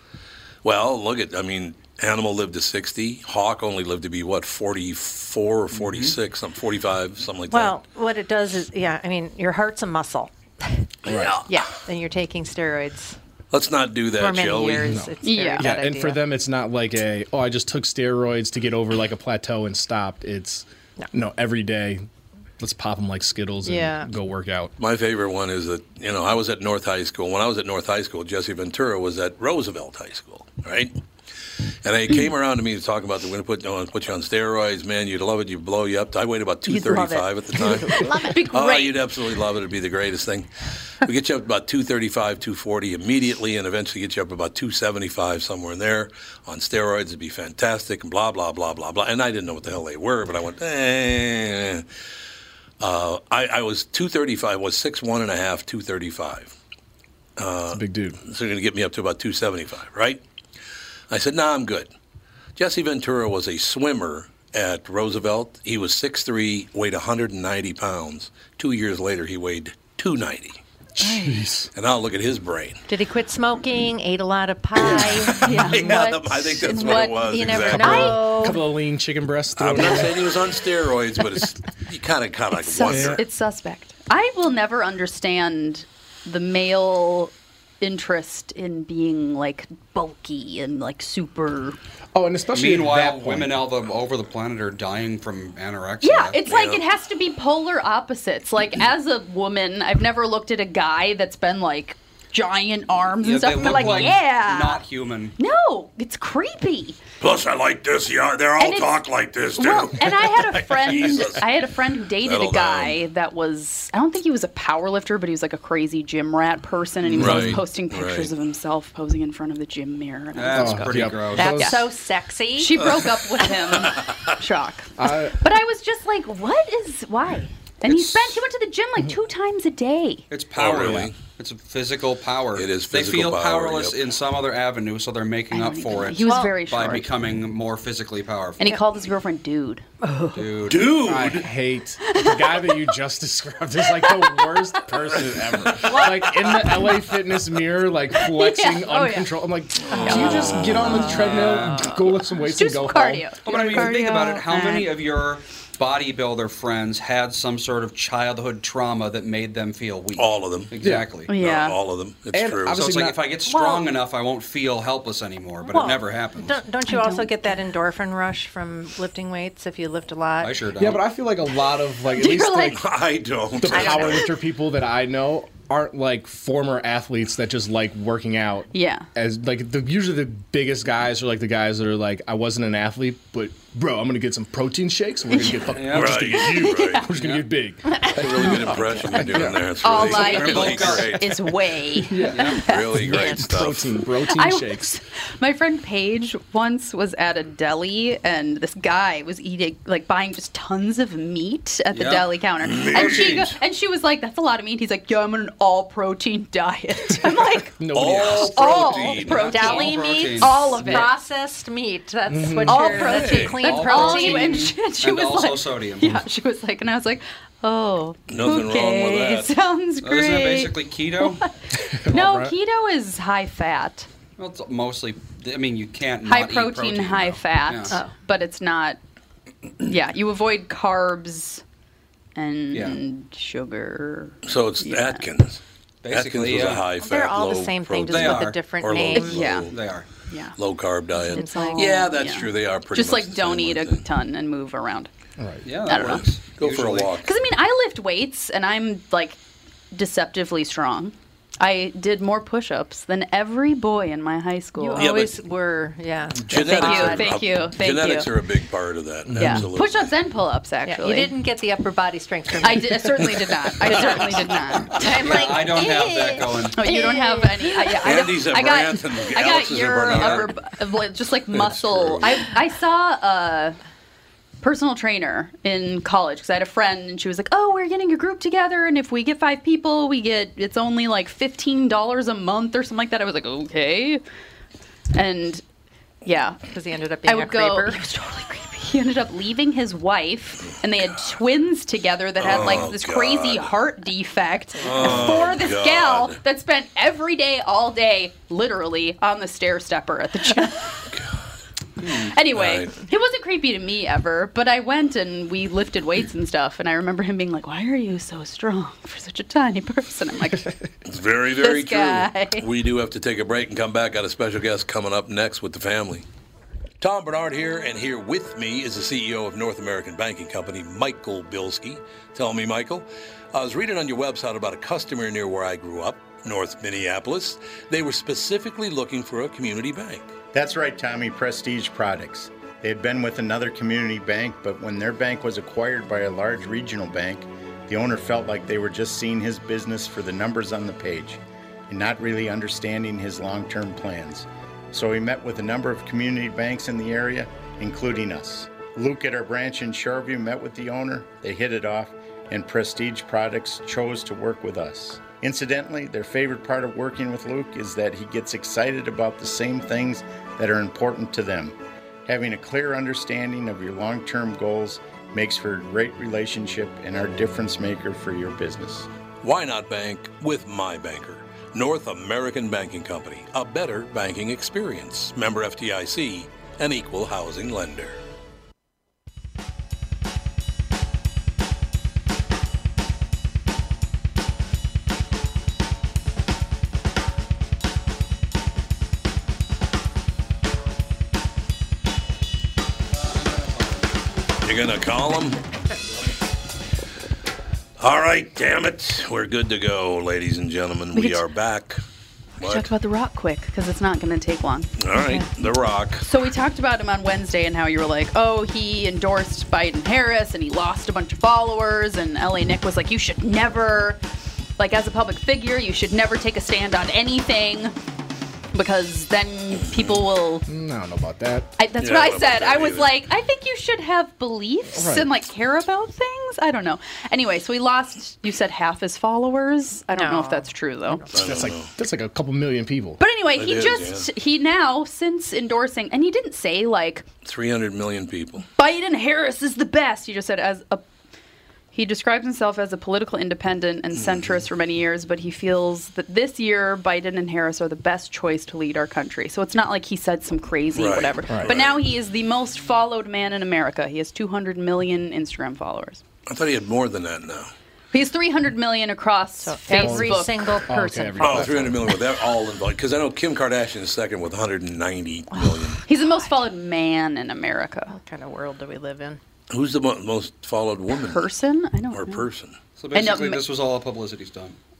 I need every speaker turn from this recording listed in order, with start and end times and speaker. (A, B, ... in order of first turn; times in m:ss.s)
0:00.6-0:07.8 A
0:05.7-0:06.2 B
0:07.5-0:13.2 C
0:11.1-0:11.3 D
0:11.1-0:11.5 A
0:13.5-0:15.0 A
0:14.2-0:16.2 C
0:14.8-0:22.0 D
0:15.2-0:15.8 E
0:22.6-0:24.7 D
0:23.6-0:24.1 C
0:24.8-0:31.0 A
0:31.8-0:51.9 A
0:36.7-0:39.0 E
0:37.9-0:38.4 C
0:52.8-0:56.5 A
0:57.4-1:00.2 A
0:57.7-0:58.2 D
1:01.1-1:01.9 A
1:02.6-1:10.6 A
1:10.9-1:11.7 D
1:11.0-1:11.4 E
1:11.7-1:12.8 A
1:12.9-1:15.6 C
1:14.8-1:18.2 E
1:15.0-1:18.2 A
1:17.2-1:18.6 C
1:17.7-1:20.3 D
1:19.6-1:23.2 A
1:22.5-1:31.8 E
1:22.9-1:23.2 D
1:32.1-1:33.6 D
1:32.5-1:36.4 B
1:36.0-1:44.8 E
1:36.4-1:36.8 A
1:43.2-1:45.3 B
1:45.4-1:47.0 E
1:47.2-1:51.5 A
1:48.6-1:49.0 E
1:49.6-2:01.8 E
1:52.2-1:53.0 A
1:57.1-1:58.3 A
1:57.2-1:57.6 D
2:00.3-2:01.5 B
2:00.5-2:01.8 D
2:01.5-2:02.8 C
2:02.5-2:10.3 E
2:02.8-2:04.3 A
2:05.0-2:05.4 D
2:07.8-2:08.4 A
2:10.3-2:18.7 B
2:10.5-2:11.1 A
2:12.5-2:14.0 A
2:15.5-2:17.1 E
2:16.3-2:16.5 C
2:18.6-2:20.3 E
2:20.3-2:20.9 B
2:20.7-2:21.5 A
2:21.0-2:33.5 D
2:22.0-2:22.9 E
2:24.2-2:24.5 E
2:28.2-2:29.3 E
2:29.9-2:31.0 A
2:29.9-2:34.9 E
2:31.0-2:31.9 B
2:33.4-2:41.3 B
2:40.1-2:43.0 A
2:40.8-2:41.0 D
2:41.3-2:41.8 E
2:42.3-2:43.2 D
2:42.7-2:46.6 B
2:43.5-2:43.9 C
2:45.6-2:50.6 C
2:46.8-2:47.3 E
2:50.4-2:51.0 B
2:50.8-2:52.8 D
2:52.1-2:52.8 E
2:52.7-2:54.3 A
2:53.6-3:09.7 D
2:53.7-2:54.2 E
2:58.7-2:59.1 E
3:05.3-3:05.8 E
3:05.7-3:06.2 B
3:05.8-3:07.1 A
3:06.4-3:07.1 E
3:07.1-3:07.4 B
3:08.1-3:11.5 A
3:09.8-3:13.3 E
3:09.9-3:11.2 B
3:12.1-3:15.0 D
3:12.2-3:12.6 B
3:12.6-3:13.9 A
3:14.3-3:27.8 E
3:21.9-3:22.3 B
3:22.6-3:23.6 A
3:22.9-3:23.5 B
3:27.8-3:28.8 D
3:27.9-3:29.5 A
3:28.3-3:31.1 E
3:28.4-3:31.1 B
3:29.3-3:34.7 C
3:32.3-3:32.9 D
3:32.6-3:44.1 E
3:33.0-3:33.6 A
3:33.2-3:36.2 B
3:38.3-3:39.5 A
3:40.0-3:41.4 B
3:41.8-3:42.5 D
3:44.4-3:48.0 B
3:46.2-3:49.0 E
3:49.8-3:51.6 E
3:52.4-3:55.2 E
3:52.7-3:53.0 B
3:54.4-3:59.8 A
3:56.0-3:56.9 B
3:57.0-3:59.5 C
3:58.0-3:58.6 B
3:59.1-3:59.7 E
3:59.7-4:00.1 B
4:00.2-4:00.6 E
4:00.6-4:04.0 A
4:01.2-4:05.1 E
4:01.3-4:02.1 C
4:05.4-4:05.6 D
4:05.6-4:07.1 B
4:05.9-4:06.2 E
4:05.9-4:07.3 A
4:07.2-4:09.4 E
4:09.9-4:15.1 E
4:14.8-4:17.3 C
4:15.0-4:15.4 A
4:16.4-4:20.1 A
4:16.5-4:18.3 E
4:19.3-4:19.7 D
4:19.4-4:21.3 E
4:20.8-4:23.3 C
4:22.6-4:25.6 E
4:23.9-4:28.2 C
4:25.1-4:26.8 B
4:26.7-4:33.8 E
4:28.0-4:30.6 A
4:30.1-4:30.5 B
4:31.5-4:32.3 A
4:34.6-4:44.2 E
4:45.1-4:45.6 E
4:46.2-4:46.6 E
4:46.7-4:48.0 C
4:47.2-5:01.0 E
4:52.4-4:53.7 A
4:54.8-4:56.4 A
5:01.1-5:01.5 A
5:02.0-5:02.3 B
5:02.0-5:10.7 E
5:02.5-5:02.9 A
5:11.0-5:16.2 A
5:11.6-5:12.6 E
5:17.0-5:30.3 A
5:30.5-6:09.1 F
6:09.4-6:18.2 A
6:33.3-6:34.0 B
6:34.6-6:35.6 A
6:38.0-6:42.0 A
6:41.1-6:41.4 E
6:42.6-6:42.9 A
6:42.6-6:44.9 E
6:45.0-6:46.2 A
6:46.2-6:54.2 E
6:54.8-6:58.0 E
6:58.7-7:00.7 E
6:59.9-7:00.2 A
7:00.7-7:01.7 D
7:01.8-7:11.2 E
7:02.0-7:03.1 A
7:05.0-7:05.3 D
7:10.1-7:11.3 C
7:11.3-7:11.9 A
7:11.3-7:13.2 D
7:13.2-7:17.2 E
7:13.5-7:14.3 A
7:17.4-7:18.6 A
7:18.8-7:21.0 E
7:21.9-7:36.2 E
7:24.1-7:24.6 A
7:30.9-7:32.0 A
7:36.4-7:37.7 A
7:38.1-7:40.8 E
7:39.6-7:41.9 C
7:40.0-7:42.0 D
7:41.4-7:46.0 A
7:45.5-7:46.4 C
7:46.0-7:48.1 E
7:48.1-7:49.4 C
7:49.7-7:51.5 A
7:51.1-7:52.4 E
7:52.1-7:52.8 A
7:53.0-7:54.8 B
7:53.1-7:53.6 E